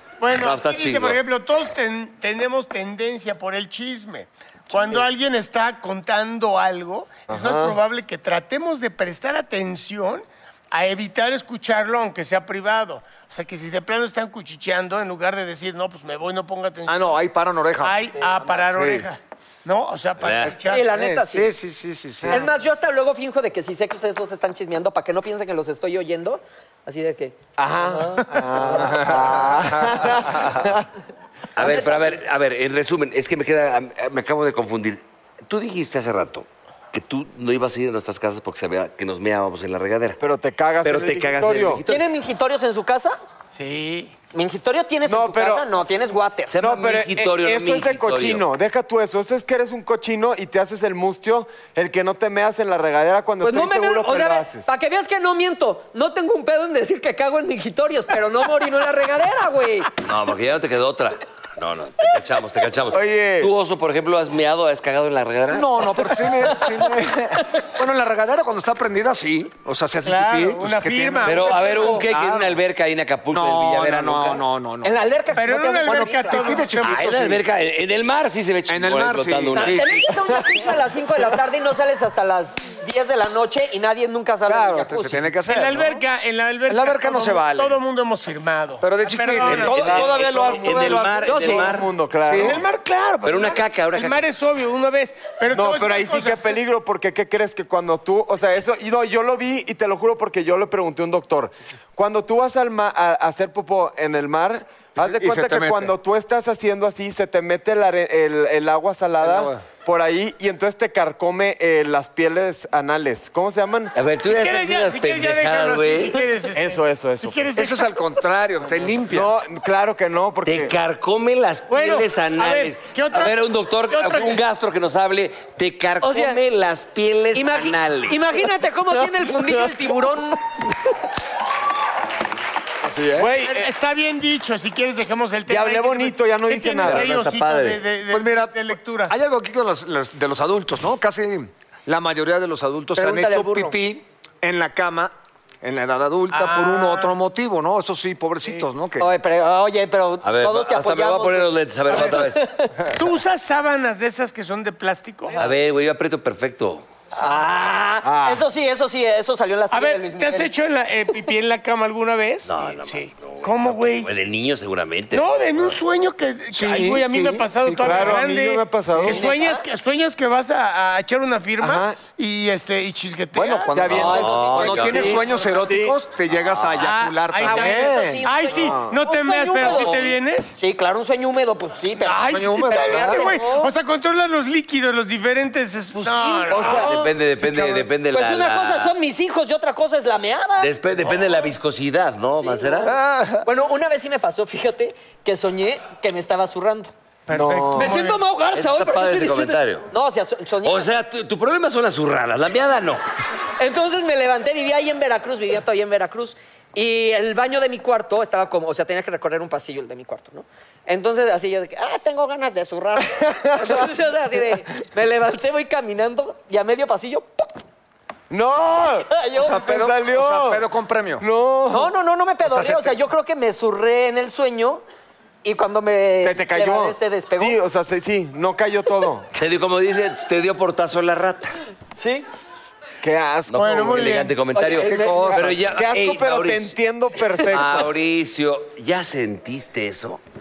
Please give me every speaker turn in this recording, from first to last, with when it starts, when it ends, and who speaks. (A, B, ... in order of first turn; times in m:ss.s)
0:00.2-0:17.2 A
0:00.3-0:01.2 B
0:07.3-0:07.8 C
0:16.9-0:18.0 D
0:17.8-0:20.9 A
0:18.7-0:19.1 D
0:20.2-0:20.5 B
0:20.5-0:22.5 D
0:20.7-0:21.5 E
0:22.3-0:29.0 E
0:27.6-0:30.8 C
0:28.9-0:30.0 D
0:31.6-0:40.2 B
0:31.6-0:32.2 E
0:40.2-0:41.8 C
0:40.8-0:42.1 B
0:41.9-0:43.2 E
0:43.5-0:44.1 A
0:44.3-0:46.5 E
0:45.0-0:45.7 C
0:46.5-0:48.4 B
0:46.6-0:54.7 C
0:53.4-0:59.9 E
1:00.0-1:06.2 B
1:02.9-1:03.5 C
1:05.5-1:12.6 D
1:07.4-1:07.6 E
1:10.0-1:12.1 A
1:11.2-1:14.4 B
1:13.3-1:17.4 D
1:14.8-1:16.8 E
1:15.4-1:17.4 A
1:16.8-1:20.0 B
1:18.7-1:20.0 D
1:19.5-1:25.3 E
1:24.5-1:26.0 D
1:25.5-1:29.8 A
1:26.7-1:27.8 D
1:28.8-1:31.6 D
1:29.5-1:31.9 B
1:29.7-1:32.6 C
1:31.2-1:31.7 E
1:32.3-1:32.6 D
1:32.4-1:36.5 A
1:33.2-1:34.3 B
1:35.5-1:53.9 C
1:45.0-1:45.9 D
1:49.2-1:49.6 D
1:54.0-1:56.2 B
1:54.2-1:58.0 A
1:56.6-1:57.5 C
1:57.5-1:59.3 D
1:59.1-2:00.8 C
2:00.5-2:08.4 B
2:01.7-2:04.4 A
2:06.0-2:06.4 E
2:07.3-2:10.6 E
2:09.2-2:09.7 C
2:12.9-2:13.7 C
2:13.2-2:19.1 A
2:15.5-2:17.1 C
2:16.8-2:17.8 B
2:18.1-2:29.1 D
2:23.0-2:23.8 E
2:26.3-2:27.1 A
2:29.0-2:32.8 E
2:30.2-2:32.4 B
2:32.9-2:35.4 A
2:35.4-2:36.9 B
2:37.1-2:40.5 E
2:38.0-2:38.4 C
2:39.7-2:44.1 A
2:42.4-2:45.7 B
2:45.1-2:53.8 A
2:46.5-2:48.0 D
2:46.7-2:47.0 C
2:47.6-2:49.3 C
2:49.0-2:49.6 E
2:51.6-2:52.0 C
2:53.3-2:58.2 D
2:53.7-2:56.0 C
2:53.9-2:55.2 B
2:54.0-2:54.9 E
2:56.8-3:00.5 A
2:57.3-3:03.7 E
2:58.5-2:59.0 C
2:59.6-3:00.1 B
3:02.0-3:06.9 A
3:02.3-3:03.4 D
3:06.0-3:07.1 E
3:06.5-3:06.9 C
3:06.6-3:08.9 B
3:07.4-3:07.8 D
3:08.1-3:10.7 E
3:10.6-3:12.9 B
3:12.8-3:13.4 D
3:13.4-3:16.9 E
3:17.3-3:18.2 A
3:17.3-3:17.9 C
3:17.8-3:20.9 E
3:18.5-3:19.9 B
3:20.6-3:23.0 B
3:23.6-3:37.5 E
3:33.1-3:33.9 C
3:38.3-3:40.7 C
3:39.1-3:39.6 E
3:39.4-3:41.2 D
3:41.2-3:41.9 C
3:41.7-3:44.8 E
3:42.4-3:43.0 D
3:45.4-3:47.6 E
3:46.2-3:49.3 C
3:49.4-3:51.6 B
3:52.0-3:52.3 E
3:53.0-3:54.2 C
3:53.5-3:56.8 B
3:53.6-3:54.4 A
3:54.6-3:55.4 E
3:54.8-3:55.7 D
3:55.4-3:57.9 C
3:57.5-4:00.2 B